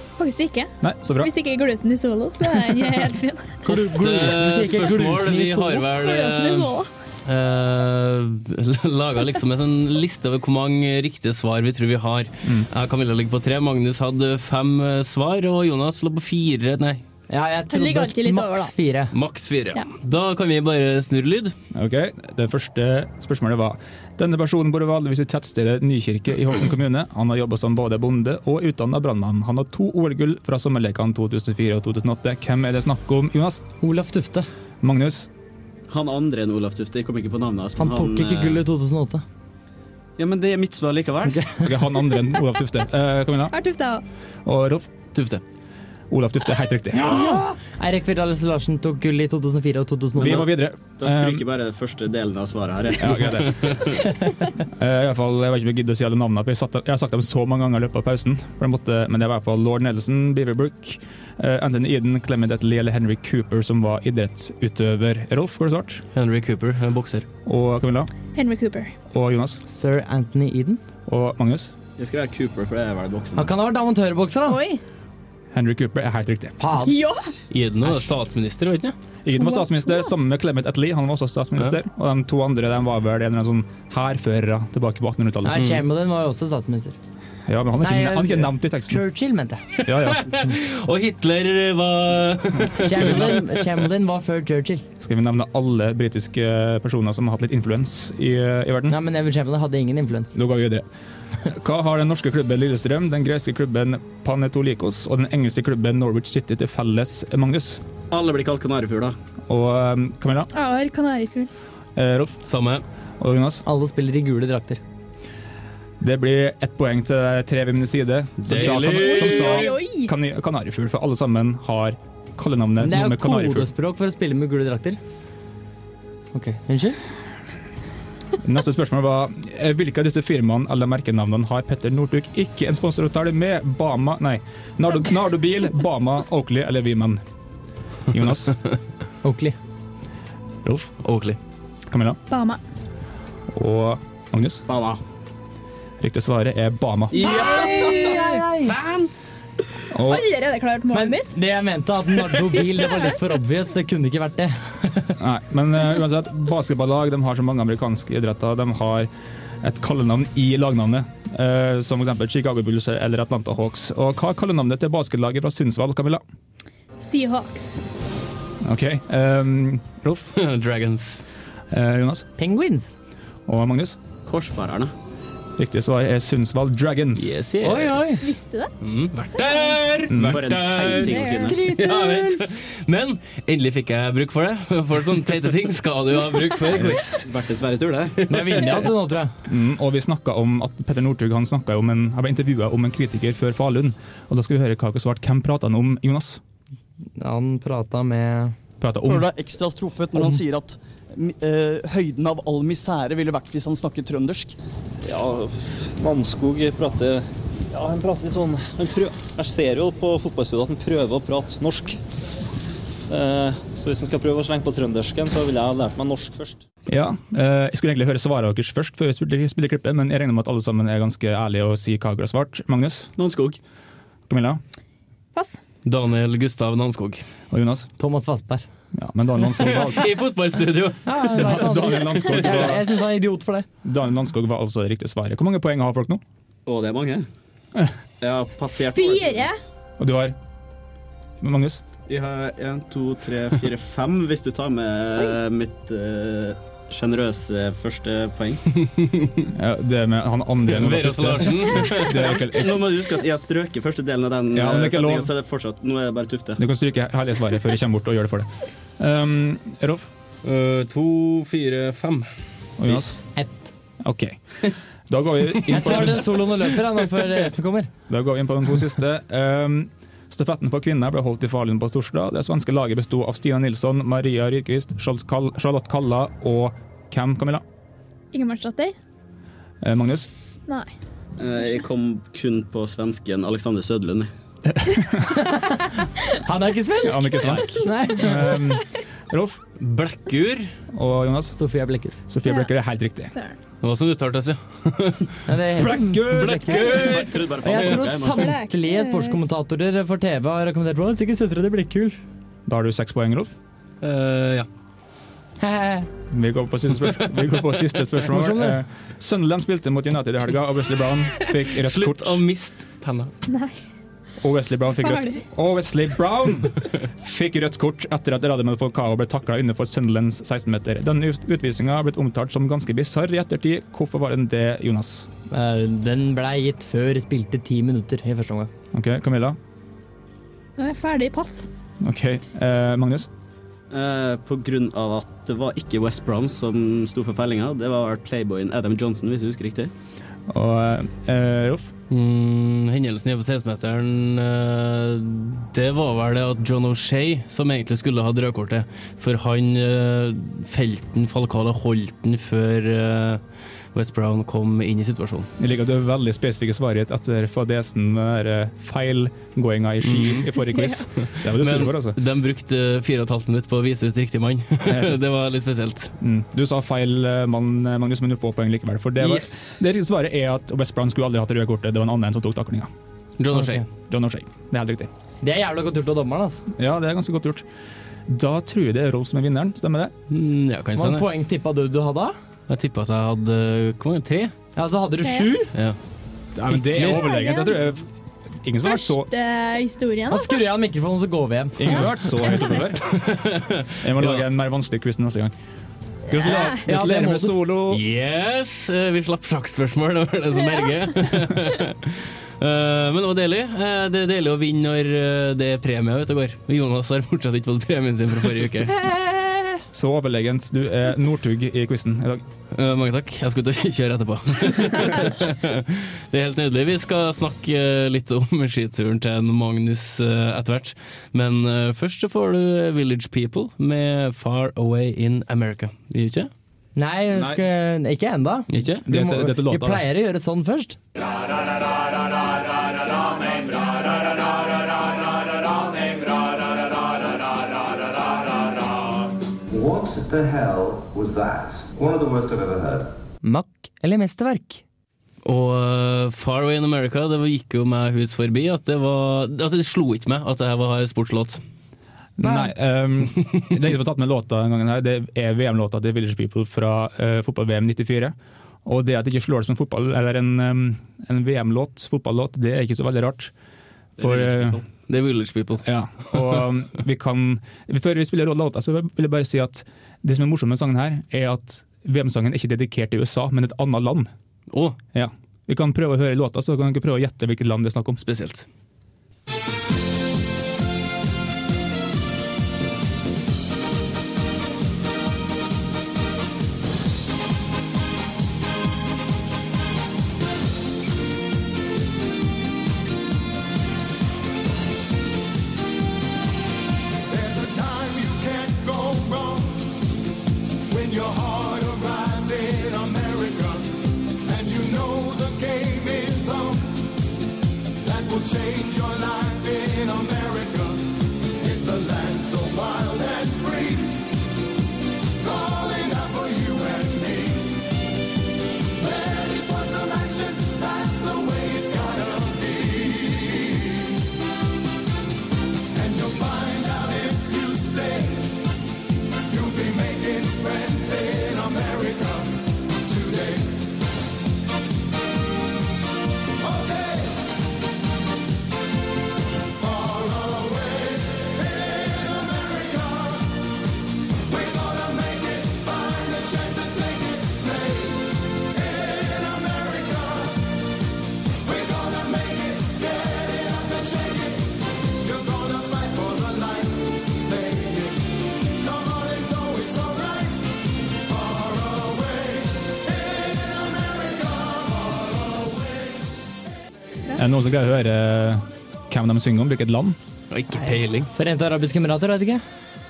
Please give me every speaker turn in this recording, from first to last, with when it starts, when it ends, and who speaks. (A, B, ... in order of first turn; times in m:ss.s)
0:00.2-0:03.6 A
0:00.8-0:01.3 B
0:03.6-0:05.9 C
0:03.7-0:17.0 D
0:06.0-0:06.9 A
0:17.3-0:19.1 C
0:17.7-0:18.7 A
0:19.1-0:21.5 D
0:21.7-0:33.6 B
0:33.8-0:34.5 C
0:34.8-0:35.3 B
0:35.9-0:38.6 E
0:37.8-0:39.2 C
0:40.2-0:41.5 E
0:41.3-0:41.7 C
0:41.6-0:43.5 B
0:43.5-0:44.0 A
0:44.4-0:44.9 B
0:45.1-0:45.4 D
0:46.1-0:47.3 B
0:46.9-0:50.5 C
0:50.2-0:51.4 B
0:50.2-0:53.4 E
0:53.0-0:54.0 B
0:53.4-0:53.8 D
0:54.6-1:06.0 B
1:06.1-1:07.2 D
1:07.4-1:08.1 B
1:08.3-1:08.9 A
1:09.1-1:09.6 B
1:09.7-1:10.8 C
1:11.1-1:11.7 B
1:12.0-1:13.5 E
1:13.4-1:14.6 C
1:14.5-1:14.8 A
1:15.5-1:16.6 B
1:16.6-1:17.3 C
1:16.8-1:17.3 A
1:17.5-1:18.9 D
1:19.2-1:25.7 B
1:19.3-1:20.1 A
1:25.4-1:27.0 C
1:25.5-1:25.8 D
1:27.5-1:29.0 B
1:27.8-1:29.6 C
1:29.8-1:30.3 B
1:30.0-1:33.8 D
1:32.8-1:34.8 C
1:35.0-1:39.0 B
1:38.9-1:40.4 C
1:40.3-1:40.8 B
1:41.4-1:47.8 B
1:48.1-1:49.1 E
1:49.5-1:50.5 B
1:50.5-1:51.5 A
1:52.0-1:52.4 B
1:52.4-1:52.8 D
1:53.2-1:53.6 B
1:53.6-1:54.8 C
1:56.0-2:03.7 B
1:58.4-1:59.7 D
1:58.8-2:00.1 A
2:02.8-2:05.0 C
2:06.3-2:07.0 C
2:08.4-2:17.2 B
2:18.1-2:18.6 B
2:19.2-2:19.6 C
2:20.6-2:20.9 B
2:21.0-2:21.4 D
2:21.9-2:22.2 B
2:22.3-2:22.6 A
2:23.5-2:24.6 B
2:24.7-2:25.0 E
2:26.0-2:27.2 B
2:27.1-2:28.8 C
2:27.2-2:28.1 E
2:27.2-2:28.5 A
2:28.7-2:29.1 E
2:29.9-2:30.2 B
2:30.0-2:31.3 A
2:30.9-2:35.1 C
2:32.5-2:33.2 A
2:35.2-2:39.1 B
2:39.6-2:46.2 B
2:47.0-2:47.8 A
2:48.6-2:50.3 B
2:50.3-2:51.2 D
2:51.7-2:52.2 B
2:52.4-2:52.9 C
2:53.5-2:54.0 B
2:54.2-2:54.9 E
2:55.6-2:57.5 B
2:57.2-2:58.2 D
2:57.6-2:58.3 C
2:58.2-2:58.7 A
2:58.8-3:07.3 D
2:59.4-2:59.7 A
3:00.1-3:00.4 B
3:00.2-3:01.6 E
3:01.0-3:02.4 A
3:06.6-3:08.3 E
3:08.3-3:08.8 D
3:08.3-3:09.3 C
3:09.5-3:16.4 B
3:17.2-3:18.6 C
3:18.8-3:19.3 B
3:19.0-3:24.6 F
3:25.0-3:32.0 G
3:33.1-3:36.6 G
3:36.9-3:43.1 B
3:43.2-3:43.6 E
3:44.3-3:44.6 B
3:45.8-3:47.2 D
3:47.5-3:47.9 B
3:48.0-3:48.6 C
3:48.9-3:50.1 B
3:49.6-3:51.2 D
3:51.0-3:53.6 C
3:51.2-3:52.8 B
3:53.8-3:56.2 B
3:56.6-3:57.2 E
3:58.2-3:59.5 E
3:58.8-3:59.6 A
4:00.0-4:00.3 B
4:01.4-4:01.8 B
4:02.1-4:08.6 E
4:08.9-4:09.5 D
4:09.5-4:12.8 B
4:10.7-4:12.3 D
4:12.1-4:16.6 E
4:14.5-4:15.3 B
4:16.6-4:20.1 B
4:20.4-4:22.3 D
4:22.8-4:23.2 B
4:23.3-4:23.7 C
4:24.0-4:26.3 B
4:25.7-4:26.0 D
4:25.7-4:27.9 C
4:28.1-4:37.6 B
4:38.3-4:39.0 A
4:39.8-4:40.3 B
4:41.4-4:44.3 E
4:44.7-4:45.4 B
4:45.5-4:45.9 C
4:46.4-4:48.6 C
4:47.0-4:49.6 B
4:49.8-4:50.7 D
4:50.9-4:51.6 B
4:51.5-4:52.2 C
4:52.3-4:53.3 B
4:52.4-4:52.7 A
4:53.2-4:53.6 A
4:53.8-4:55.4 D
4:55.5-5:02.2 C
4:55.8-4:57.0 B
4:55.9-4:58.1 D
4:56.9-4:58.5 E
4:58.2-4:59.4 A
5:02.7-5:03.5 B
5:04.0-5:04.7 D
5:05.6-5:06.1 C
5:06.3-5:12.4 B
5:08.2-5:08.8 C
5:11.5-5:13.3 D
5:13.5-5:13.8 A
5:14.4-5:25.3 B
5:15.0-5:15.4 A
5:25.5-5:28.7 C
5:28.9-5:29.6 B
5:30.8-5:31.7 A
5:32.0-5:33.3 B
5:33.9-5:39.9 E
5:40.5-5:41.9 B
5:42.1-5:53.4 D
5:53.9-5:55.5 D
5:55.6-6:02.2 B
6:00.0-6:00.5 D
6:01.3-6:06.1 D
6:04.9-6:05.2 B
6:06.2-6:12.9 B
6:13.4-6:13.8 D
6:13.5-6:13.8 C
6:14.1-6:15.1 B
6:15.4-6:16.6 C
6:16.8-6:17.6 B
6:18.3-6:20.1 B
6:20.3-6:21.2 D
6:20.9-6:22.4 C
6:22.7-6:24.5 D
6:24.8-6:25.7 C
6:25.2-6:25.5 A
6:26.5-6:28.0 B
6:26.7-6:27.3 C
6:27.0-6:27.8 A
6:28.6-6:29.3 B
6:28.8-6:30.5 A
6:30.3-6:32.3 C
6:31.8-6:33.2 B
6:33.0-6:34.4 D
6:34.0-6:35.5 B
6:36.3-6:38.0 B
6:36.5-6:37.6 C
6:37.9-6:49.0 D
6:49.9-6:52.4 B
6:52.7-7:06.5 D
7:07.0-7:11.0 C
7:07.3-7:07.6 B
7:08.7-7:09.0 D
7:09.0-7:10.0 B
7:19.7-7:23.1 H
7:23.4-7:24.8 C
7:25.4-7:31.6 D
7:32.4-7:43.5 B
7:32.4-7:32.7 C
7:44.2-7:44.8 E
7:44.2-7:44.8 B
7:45.1-7:45.8 D
7:45.8-7:54.3 B
7:54.7-7:55.0 D
7:55.1-7:58.2 B
7:58.2-7:58.6 D
8:17.3-8:20.0 I
8:20.9-8:27.0 I
8:28.0-8:34.3 I
8:35.4-8:37.8 I
8:39.0-8:44.1 I
8:45.9-8:48.6 I
8:49.5-8:53.9 I
8:56.6-8:57.4 I
8:59.8-9:03.6 I
9:04.4-9:10.8 I
9:11.6-9:26.3 I
9:27.3-9:30.2 B
9:30.5-9:31.3 D
9:31.3-9:32.6 C